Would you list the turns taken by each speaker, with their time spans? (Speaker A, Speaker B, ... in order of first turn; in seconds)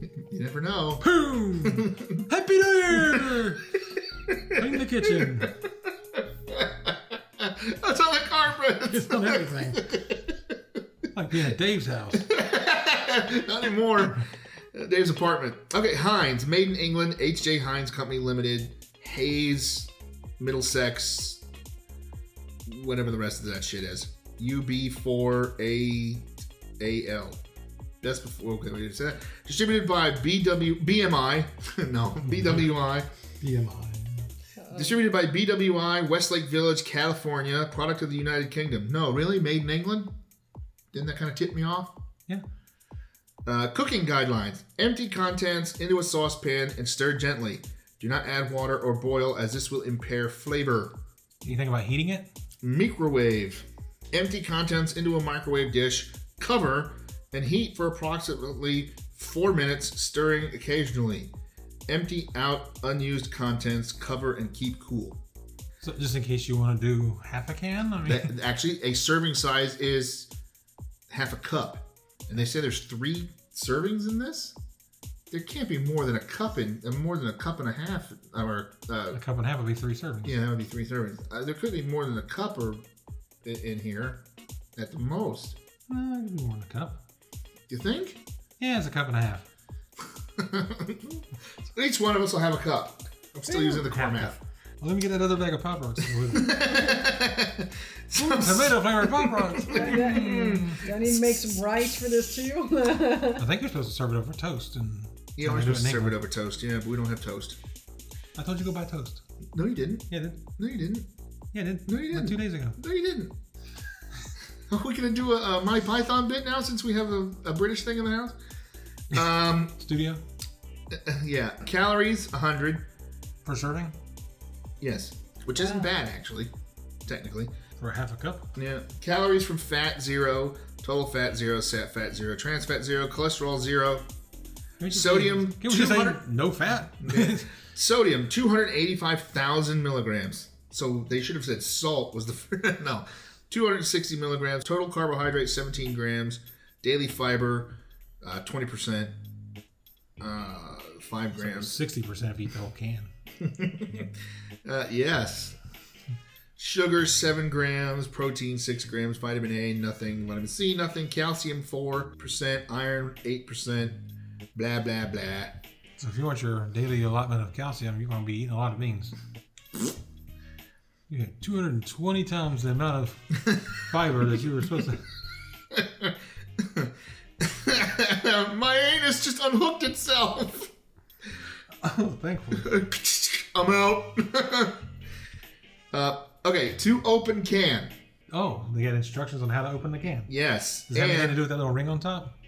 Speaker A: 0.2-1.1, 1.6-2.2, 4.3-5.5, 6.5-10.3, 12.2-21.4, 22.6-26.2, 26.8-27.4, 28.0-33.1, 34.7-40.1, 40.9-41.9, 43.5-50.9, 52.6-61.3, 61.9-65.2, 68.0-70.3, 71.1-74.5, 75.3-79.2, 80.2-82.8, 83.4-84.2, 84.8-85.5, 87.7-88.2, 90.4-94.3, 96.3-101.0, 105.4-107.6, 109.5-111.1, 111.9-113.3, 114.7-118.3, 119.1-119.7, 120.9-122.8, 124.8-126.5, 127.0-127.5, 128.6-134.1, 134.9-136.2, 137.0-149.1, 150.2-151.8, 153.4-155.6, 156.6-164.0, 164.5-165.6, 175.7-180.7, 182.5-184.8, 185.9-187.9, 190.3-191.4
Speaker B: 1.0-3.6, 4.5-5.5, 8.9-9.9, 11.1-12.3, 32.3-32.7, 33.4-34.3, 51.4-52.3, 65.8-68.3, 79.1-80.4, 85.9-87.0, 88.6-89.5, 93.5-96.8, 98.1-100.8, 103.3-106.2, 108.3-109.2, 110.1-110.4, 111.5-112.8, 119.1-120.2, 123.4-123.9, 127.8-128.5, 134.8-137.5, 151.4-153.1, 166.0-169.1, 171.1-175.1, 181.8-182.7, 188.3-190.3, 190.9-192.3
Speaker C: 34.6-35.0, 99.7-103.4, 125.6-125.9